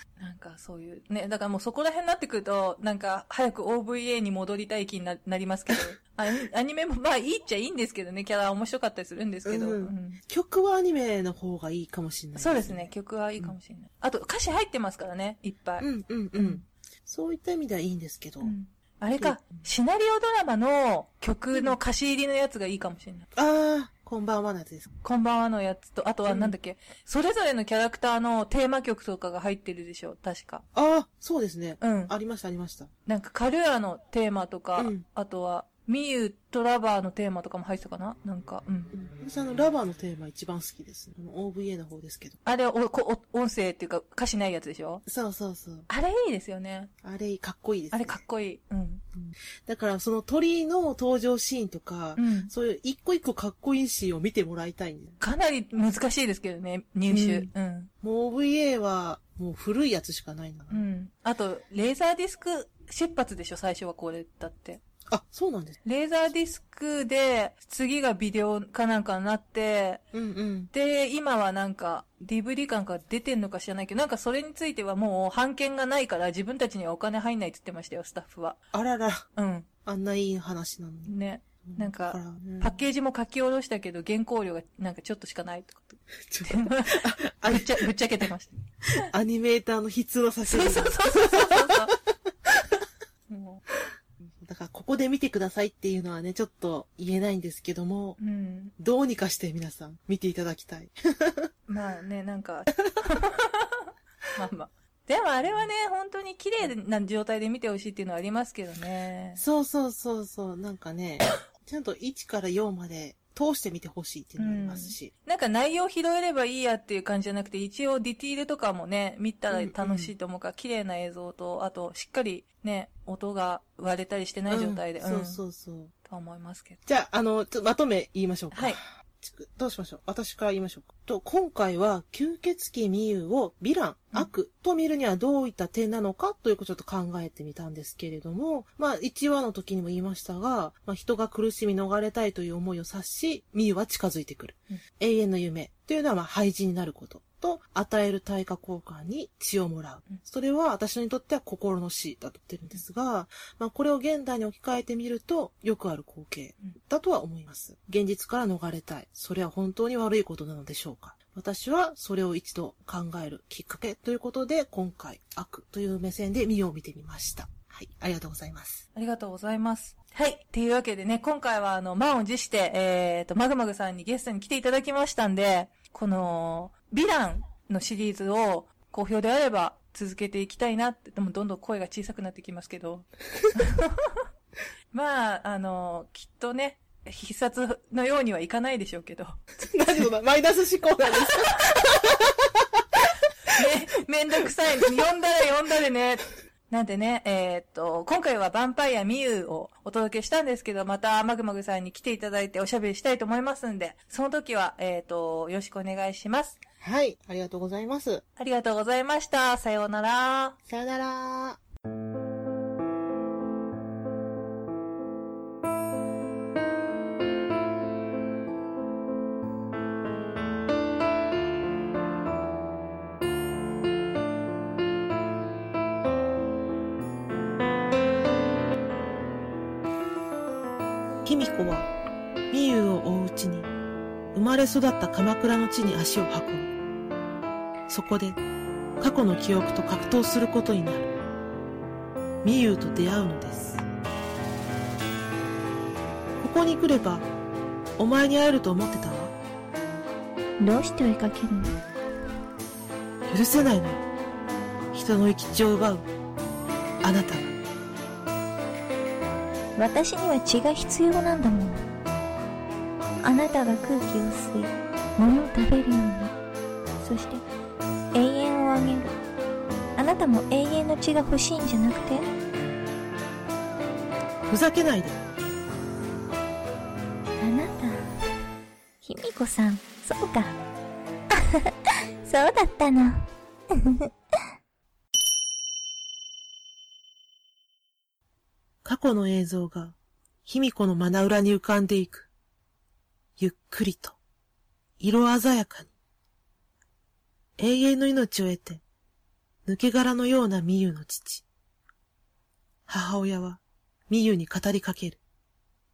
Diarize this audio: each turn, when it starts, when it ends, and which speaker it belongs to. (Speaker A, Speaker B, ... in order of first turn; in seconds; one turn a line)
Speaker A: 0.2-10.2
Speaker B: 9.5-13.6
Speaker A: 12.4-16.6
Speaker B: 15.8-18.5
Speaker A: 18.4-23.3
Speaker B: 19.2-19.6
Speaker B: 23.4-24.9
Speaker A: 25.0-30.6
Speaker B: 26.3-26.6
Speaker B: 30.7-32.9
Speaker A: 31.8-32.1
Speaker A: 33.1-38.9
Speaker B: 34.8-35.0
Speaker B: 38.9-42.4
Speaker A: 42.5-45.0
Speaker B: 45.1-45.9
Speaker A: 45.9-46.9
Speaker B: 47.0-48.2
Speaker A: 47.9-49.0
Speaker B: 49.2-55.2
Speaker A: 52.2-52.5
Speaker A: 55.2-57.9
Speaker B: 57.1-57.5
Speaker B: 58.0-60.8
Speaker A: 60.7-64.8
Speaker B: 65.1-65.8
Speaker A: 65.8-70.0
Speaker B: 70.1-70.7
Speaker A: 70.7-78.6
Speaker B: 78.7-79.3
Speaker A: 79.4-79.7
Speaker B: 79.8-82.8
Speaker A: 81.1-89.0
Speaker B: 86.2-87.9
Speaker B: 89.1-92.8
Speaker A: 90.5-92.0
Speaker A: 93.3-93.6
Speaker B: 93.8-98.2
Speaker A: 98.2-98.7
Speaker B: 98.8-101.5
Speaker A: 101.7-109.4
Speaker B: 109.4-115.1
Speaker A: 114.4-125.4
Speaker B: 119.5-120.1
Speaker B: 124.5-125.9
Speaker A: 126.0-126.8
Speaker B: 126.9-168.8
Speaker A: 128.5-128.8
Speaker A: 168.9-184.2
Speaker A: 184.9-189.4
Speaker B: 189.6-193.0
Speaker A: 193.5-206.6
Speaker B: 206.8-208.2
Speaker A: 208.4-210.6
Speaker B: 210.7-211.6
Speaker B: 231.2-231.9
Speaker B: 232.5-233.7
Speaker B: 234.3-236.7
Speaker B: 237.9-238.4
Speaker B: 239.0-241.1
Speaker B: 242.4-243.8
Speaker B: 246.4-247.3
Speaker B: 248.0-249.3
Speaker C: 250.6-251.8
Speaker B: 253.3-254.0
Speaker B: 254.9-256.1
Speaker B: 257.0-257.6
Speaker C: 259.8-261.8
Speaker C: 263.2-266.3
Speaker C: 267.0-267.4
Speaker C: 268.1-269.1
Speaker C: 270.0-272.3
Speaker B: 274.5-275.2
Speaker C: 277.4-278.1
Speaker C: 279.0-280.6
Speaker C: 281.3-284.1
Speaker B: 288.8-292.3
Speaker B: 293.4-294.2
Speaker B: 295.0-295.9
Speaker B: 297.6-298.8
Speaker B: 299.7-301.5
Speaker B: 302.9-305.2